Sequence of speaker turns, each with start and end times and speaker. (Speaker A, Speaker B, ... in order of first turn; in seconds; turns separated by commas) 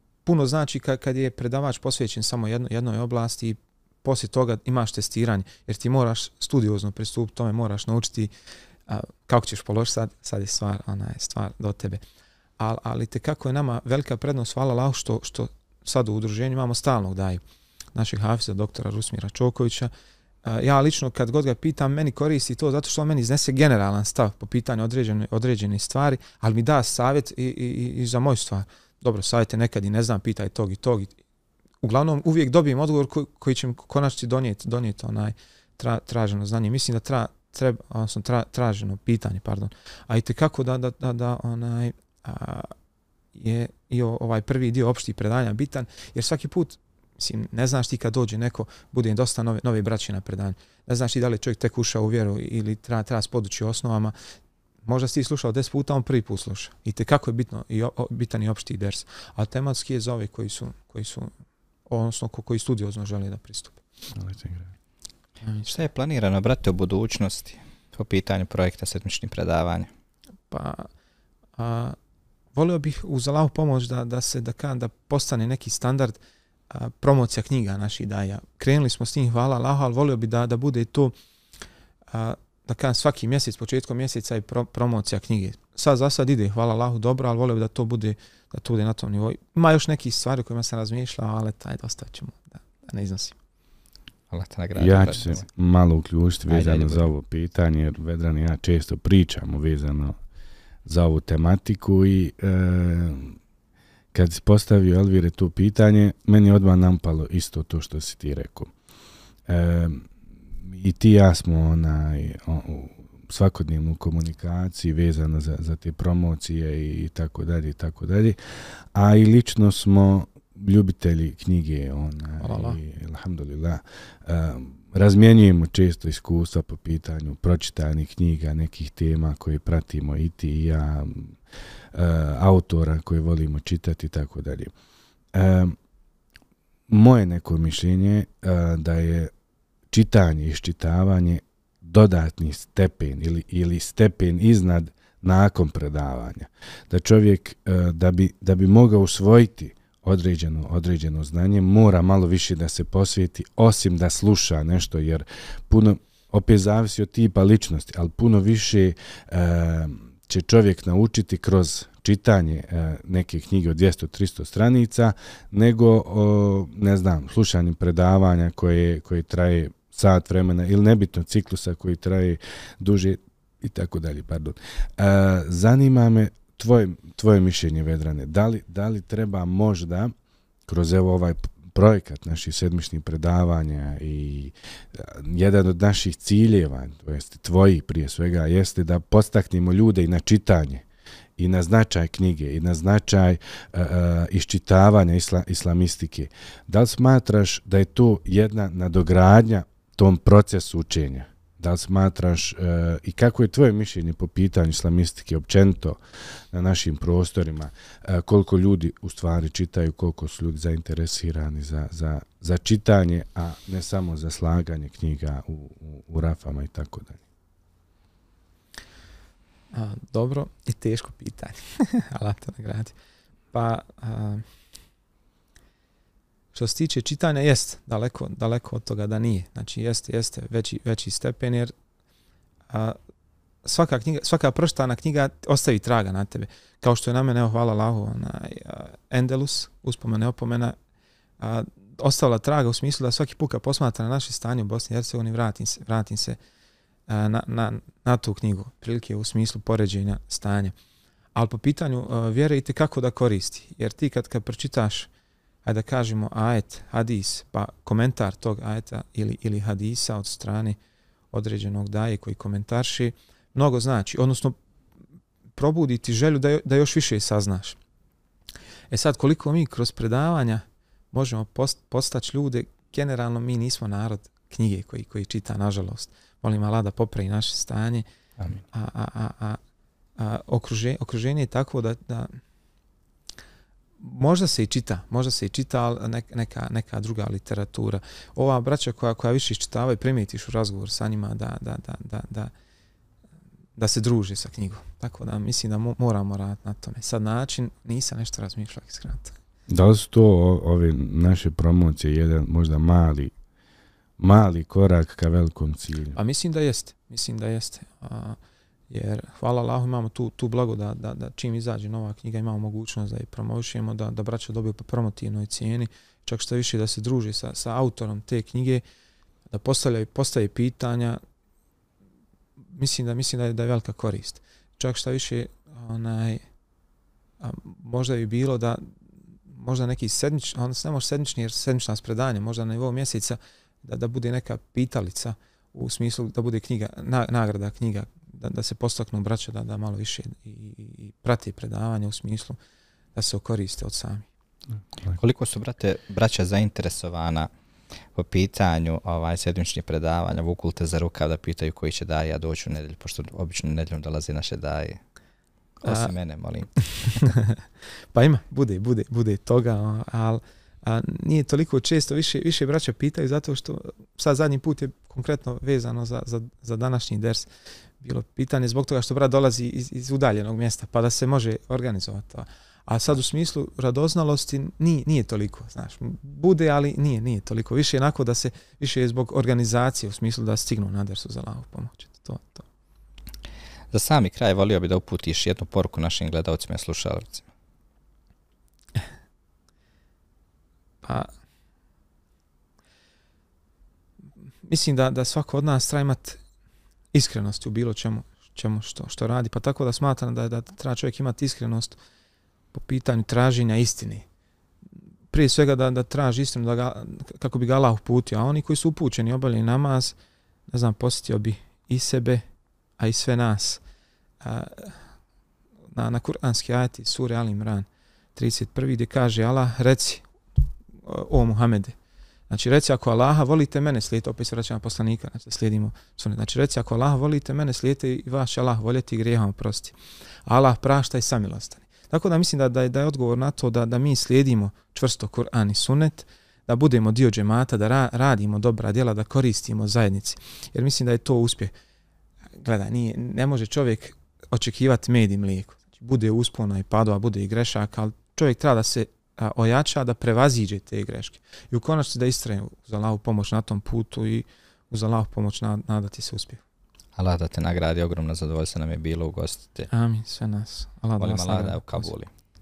Speaker A: 0.2-8.3, Speaker A: 8.9-12.0, Speaker A: 12.6-17.4, Speaker A: 17.9-19.9, Speaker A: 20.4-31.1, Speaker A: 31.8-42.7, Speaker A: 43.3-54.1, Speaker A: 54.8-61.3, Speaker A: 61.9-63.8, Speaker B: 64.1-64.7, Speaker A: 65.4-65.7, Speaker C: 65.7-69.9, Speaker A: 70.5-70.9, Speaker A: 71.6-72.0, Speaker A: 72.5-76.2, Speaker A: 76.7-81.1, Speaker A: 82.1-93.4, Speaker C: 94.3-95.4, Speaker B: 94.8-100.2, Speaker C: 96.5-97.1, Speaker B: 100.8-103.4, Speaker B: 104.1-108.7, Speaker B: 109.5-110.1, Speaker B: 110.6-118.4, Speaker B: 118.9-131.4, Speaker A: 122.4-122.8, Speaker B: 131.9-134.7, Speaker B: 135.3-135.8, Speaker B: 136.9-139.3, Speaker B: 139.9-180.1, Speaker B: 180.7-190.8, Speaker B: 191.4-206.0, Speaker B: 206.5-217.2, Speaker A: 219.7-222.9, Speaker A: 223.5-224.4, Speaker A: 226.5-231.7, Speaker A: 232.7-233.0, Speaker A: 233.6-240.8, Speaker A: 241.4-246.4, Speaker A: 247.1-250.7, Speaker A: 251.3-255.1, Speaker A: 255.6-260.8, Speaker A: 261.3-264.6, Speaker A: 265.6-267.8, Speaker A: 268.9-278.0, Speaker A: 278.7-279.6, Speaker A: 280.2-282.4, Speaker A: 284.0-292.5, Speaker A: 293.8-299.4, Speaker B: 299.7-303.3, Speaker B: 304.2-306.2, Speaker A: 306.1-308.4, Speaker A: 308.9-318.8, Speaker A: 319.5-321.2, Speaker A: 322.7-326.4, Speaker A: 327.4-328.9, Speaker A: 329.5-342.6, Speaker A: 343.1-344.2, Speaker C: 345.1-347.5, Speaker C: 348.1-355.0, Speaker C: 355.8-357.2, Speaker A: 355.8-356.1, Speaker A: 356.8-357.6, Speaker A: 358.1-367.5, Speaker A: 368.0-382.6, Speaker C: 383.9-387.5, Speaker A: 391.0-391.3, Speaker A: 394.6-396.4, Speaker A: 397.1-402.0, Speaker A: 402.7-404.2, Speaker A: 405.3-410.1, Speaker A: 410.7-412.4, Speaker A: 413.0-413.8, Speaker A: 414.4-415.0, Speaker A: 415.9-420.2, Speaker A: 421.0-421.9, Speaker A: 422.5-441.7, Speaker A: 442.6-456.6, Speaker C: 457.1-459.9, Speaker A: 459.9-462.1, Speaker C: 461.2-462.3